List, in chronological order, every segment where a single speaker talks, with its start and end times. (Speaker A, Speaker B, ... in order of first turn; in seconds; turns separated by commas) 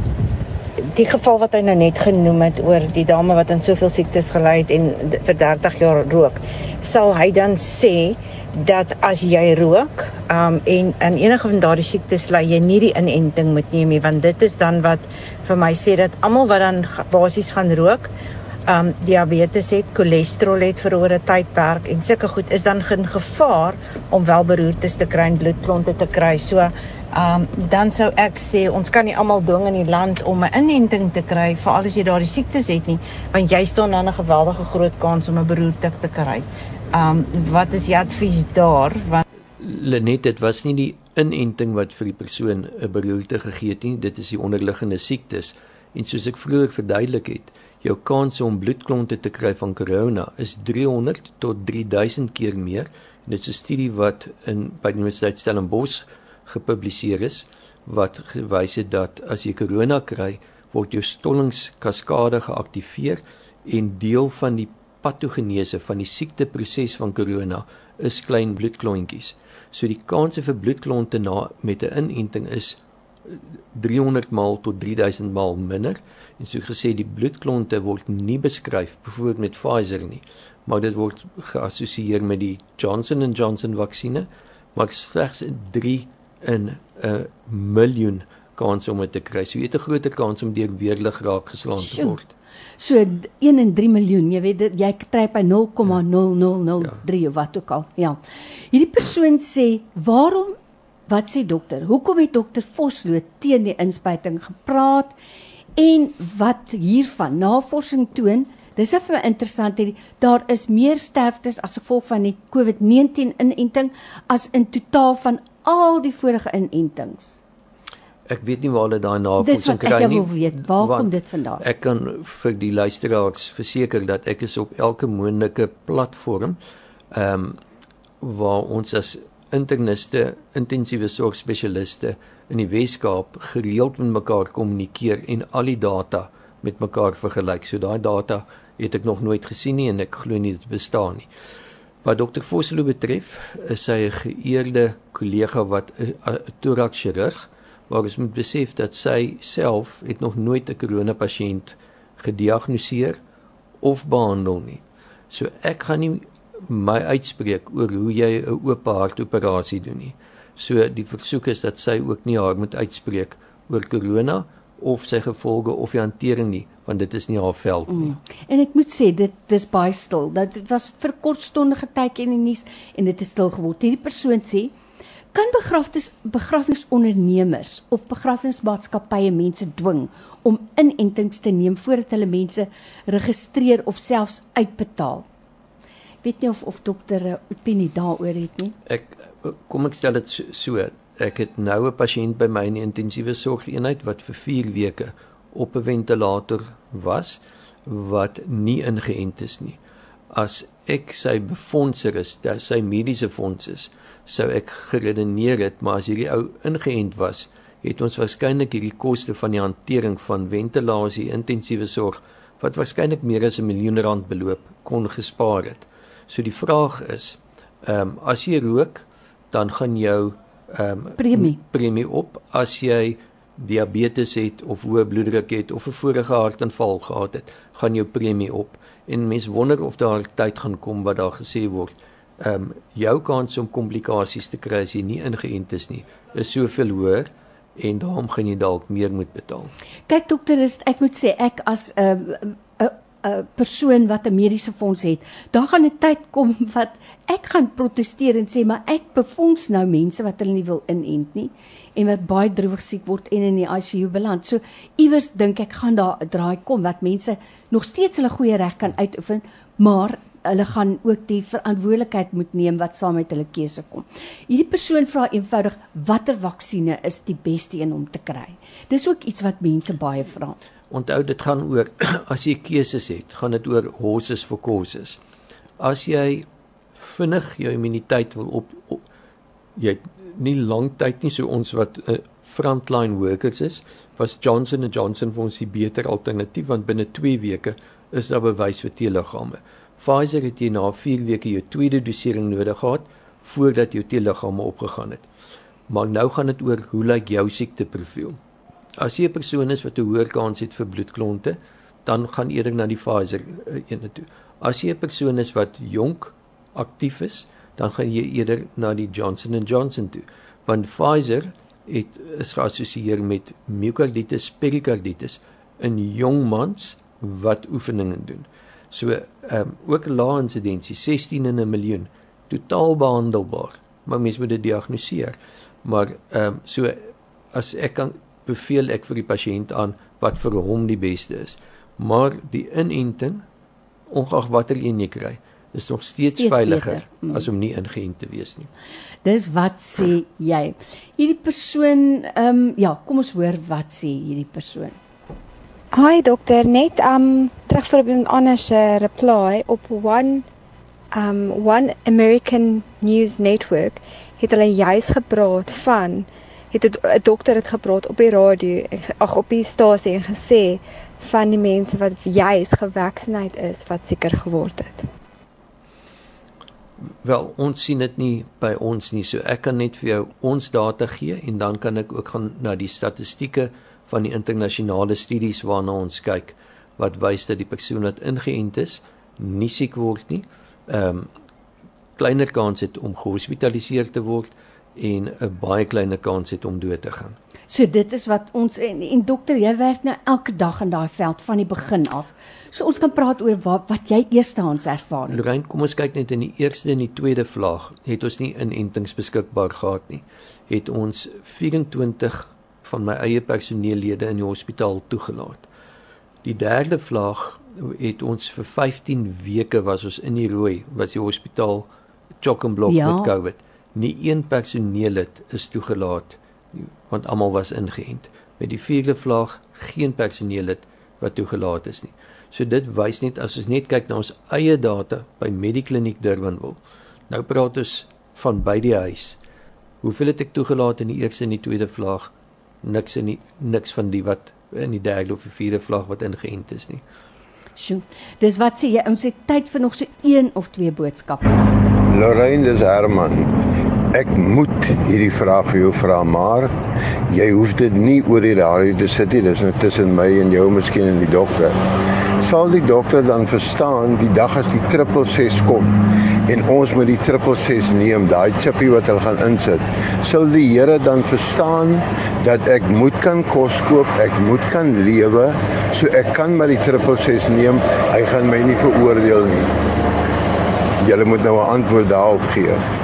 Speaker A: 0.8-18.1, Speaker A: 18.7-39.2, Speaker B: 39.6-92.3, Speaker C: 91.8-92.2, Speaker C: 92.8-98.2, Speaker C: 98.7-100.6, Speaker C: 101.1-105.1, Speaker C: 105.8-117.4, Speaker B: 118.3-126.6, Speaker C: 119.4-121.6, Speaker B: 127.1-127.6, Speaker B: 128.2-141.3, Speaker B: 142.0-153.2, Speaker B: 153.8-168.2, Speaker C: 167.9-174.7, Speaker C: 175.3-185.3, Speaker C: 186.2-188.8, Speaker B: 188.9-199.8, Speaker B: 200.3-239.7, Speaker C: 221.2-221.6, Speaker C: 240.1-270.6, Speaker B: 270.9-275.2, Speaker B: 275.8-279.0, Speaker B: 279.8-295.2, Speaker B: 295.9-298.4, Speaker B: 299.0-333.4, Speaker B: 334.1-338.7, Speaker C: 336.3-337.5, Speaker C: 339.2-345.0, Speaker D: 345.9-350.5, Speaker D: 351.1-365.1, Speaker B: 367.1-381.3, Speaker B: 382.2-387.4, Speaker C: 387.7-395.4, Speaker B: 395.3-405.7, Speaker B: 406.4-411.9, Speaker B: 412.4-426.8, Speaker C: 412.9-413.3, Speaker B: 427.3-429.4, Speaker B: 430.0-432.3, Speaker B: 432.8-437.0, Speaker C: 437.8-441.5, Speaker E: 442.1-443.5, Speaker E: 444.1-446.7, Speaker E: 447.3-451.8, Speaker E: 452.4-455.9, Speaker E: 456.5-469.8, Speaker E: 471.0-472.8